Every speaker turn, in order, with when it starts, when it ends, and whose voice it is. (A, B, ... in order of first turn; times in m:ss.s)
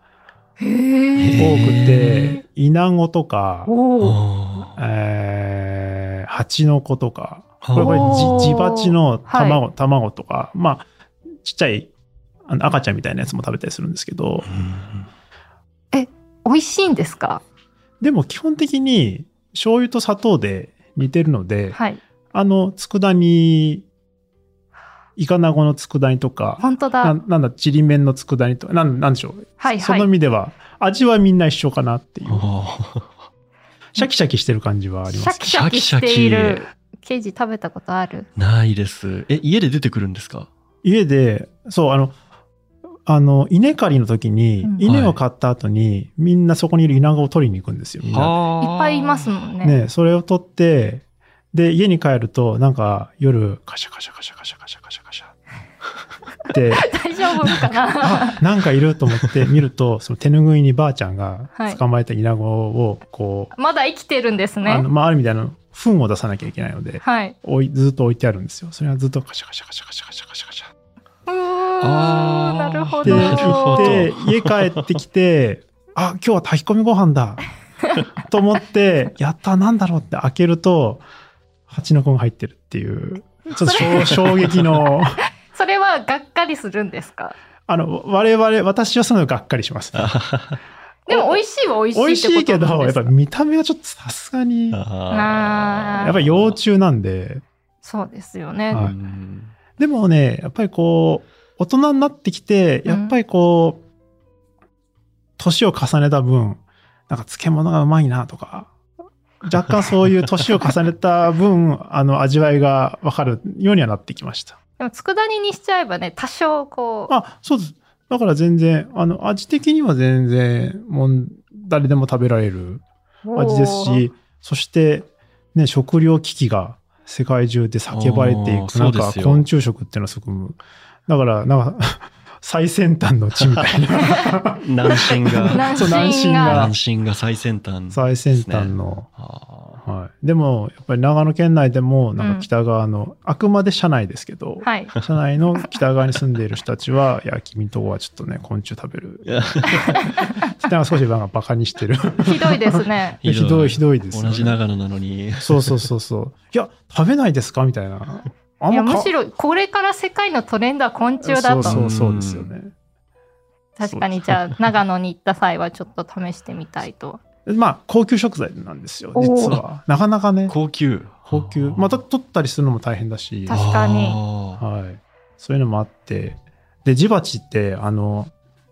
0:00.6-0:01.6 A
0:01.2-0:02.4 B
0:01.4-0:03.7 C
0:03.7-0:04.2 A
0:04.0-0:04.7 B
0:04.8-0:10.9 C
0:07.6-0:08.4 B
0:07.8-0:09.6 A
0:11.4-0:11.9 C
0:12.5-0:14.5 C
0:14.4-0:15.1 B
0:15.9-0:17.4 A
0:18.0-0:21.8 C
0:21.7-0:22.0 A
0:22.3-0:23.8 C
0:25.2-0:32.4 C
0:26.6-0:27.2 A
0:29.6-0:30.1 A
0:32.3-0:33.1 B
0:34.0-0:35.4 C
0:35.1-0:38.3 A
0:35.4-0:36.6 B
0:38.4-0:40.5 B
0:40.8-0:42.1 C
0:43.0-0:48.3 C
0:44.8-0:45.2 B
0:48.0-0:49.3 B
0:48.6-0:49.8 A
0:49.6-0:55.3 C
0:56.5-0:56.9 C
0:56.7-0:58.4 A
0:58.0-1:03.5 C
1:03.5-1:04.8 A
1:04.6-1:10.7 C
1:07.0-1:07.3 A
1:11.3-1:14.0 A
1:11.8-1:14.8 B
1:13.0-1:17.4 C
1:18.2-1:21.0 C
1:21.7-1:25.2 C
1:23.6-1:24.3 A
1:25.5-1:27.3 A
1:27.7-1:30.1 C
1:30.0-1:30.6 B
1:31.1-1:33.1 A
1:31.1-1:31.4 C
1:31.9-1:34.8 C
1:34.7-1:36.6 B
1:35.1-1:36.1 A
1:36.0-1:37.4 C
1:37.8-1:38.8 A
1:38.7-1:39.5 B
1:39.8-1:43.8 C
1:42.8-1:43.2 A
1:45.4-1:48.7 C
1:49.4-1:54.6 C
1:54.8-1:57.1 A
1:57.1-2:16.8 C
2:03.2-2:04.0 A
2:07.9-2:09.4 B
2:14.6-2:19.8 B
2:14.9-2:16.7 A
2:17.9-2:19.1 C
2:19.8-2:30.0 C
2:22.2-2:22.5 A
2:24.6-2:24.9 A
2:29.2-2:30.0 B
2:29.8-2:30.4 A
2:30.5-2:34.6 C
2:32.2-2:33.2 A
2:33.2-2:35.9 B
2:35.4-2:39.1 C
2:38.7-2:41.8 A
2:41.2-2:42.7 C
2:41.6-2:42.5 B
2:43.8-2:47.2 A
2:43.8-2:44.3 C
2:47.4-2:50.6 C
2:49.2-2:49.6 A
2:50.5-2:52.0 B
2:51.3-2:53.6 C
2:53.5-2:54.2 A
2:53.5-2:54.6 B
2:54.6-2:58.3 C